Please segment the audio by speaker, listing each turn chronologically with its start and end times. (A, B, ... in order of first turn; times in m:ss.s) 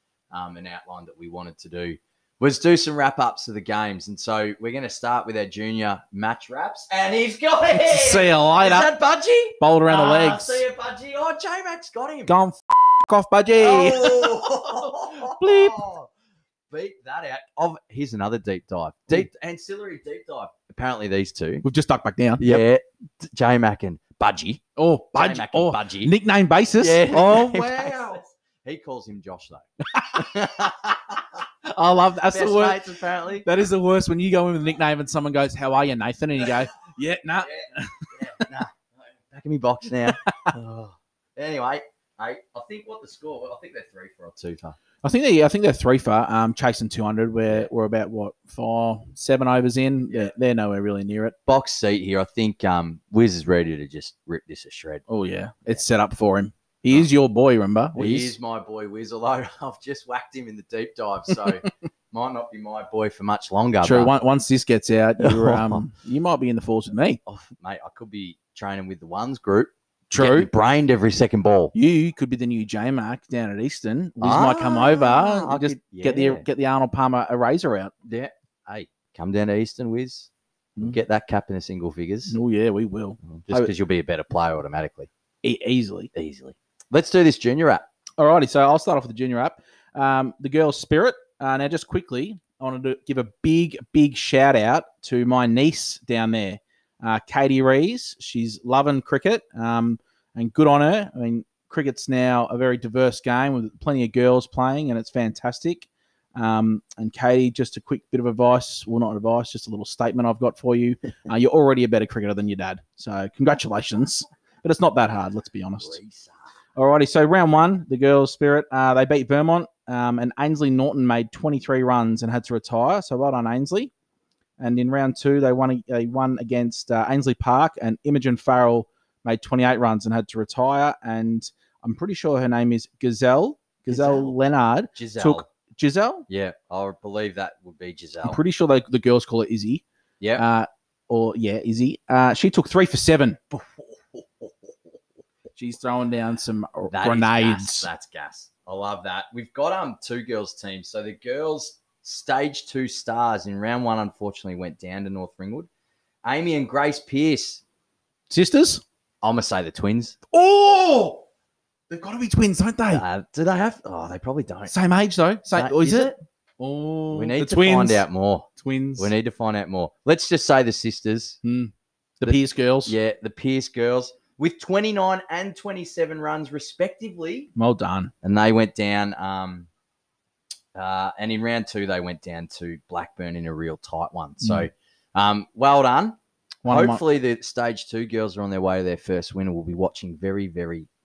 0:00.3-0:12.3 A
0:07.8-0:08.9 B
0:09.6-0:10.6 B
0:12.3-0:15.8 B
0:13.6-0:16.1 A
0:16.7-0:21.6 A
0:21.6-0:22.6 B
0:22.4-0:24.6 A
0:24.8-0:28.0 B
0:25.2-0:26.1 A
0:26.8-0:31.4 A
0:29.9-0:30.3 B
0:31.6-0:32.8 B
0:32.3-0:33.5 A
0:33.4-0:38.5 B
0:37.4-0:44.8 A
0:40.0-0:40.6 B
0:45.0-0:51.4 B
0:51.5-0:55.0 A
0:55.1-0:58.4 B
0:58.0-1:04.1 A
1:03.8-1:07.2 B
1:05.2-1:05.8 A
1:07.3-1:11.7 A
1:10.1-1:10.5 B
1:11.7-1:17.9 B
1:14.2-1:16.4 A
1:18.1-1:20.3 A
1:20.8-1:22.4 A
1:22.3-1:23.7 B
1:23.3-1:25.1 A
1:25.4-1:26.1 B
1:26.2-1:27.8 A
1:28.2-1:56.0 B
1:55.8-1:56.4 A
1:56.8-2:03.9 B
2:04.6-2:16.3 B
2:13.9-2:14.4 A
2:15.0-2:15.4 A
2:16.3-2:18.4 A
2:18.2-2:19.8 B
2:20.2-2:20.4 A
2:20.4-2:23.4 B
2:23.5-2:24.7 A
2:25.6-2:27.9 B
2:26.9-2:35.7 A
2:36.2-2:37.6 A
2:38.3-2:38.8 B
2:39.2-2:40.2 A
2:40.3-2:41.2 B
2:41.9-2:43.0 B
2:42.9-2:44.7 A
2:44.7-2:48.0 B
2:45.5-2:46.2 A
2:47.1-2:51.4 A
2:48.6-2:49.1 B
2:51.4-2:53.0 B
2:52.2-2:57.5 A
2:57.6-2:58.1 B
2:58.2-2:59.7 A
3:00.8-3:10.9 A
3:04.4-3:04.7 B
3:06.6-3:07.0 B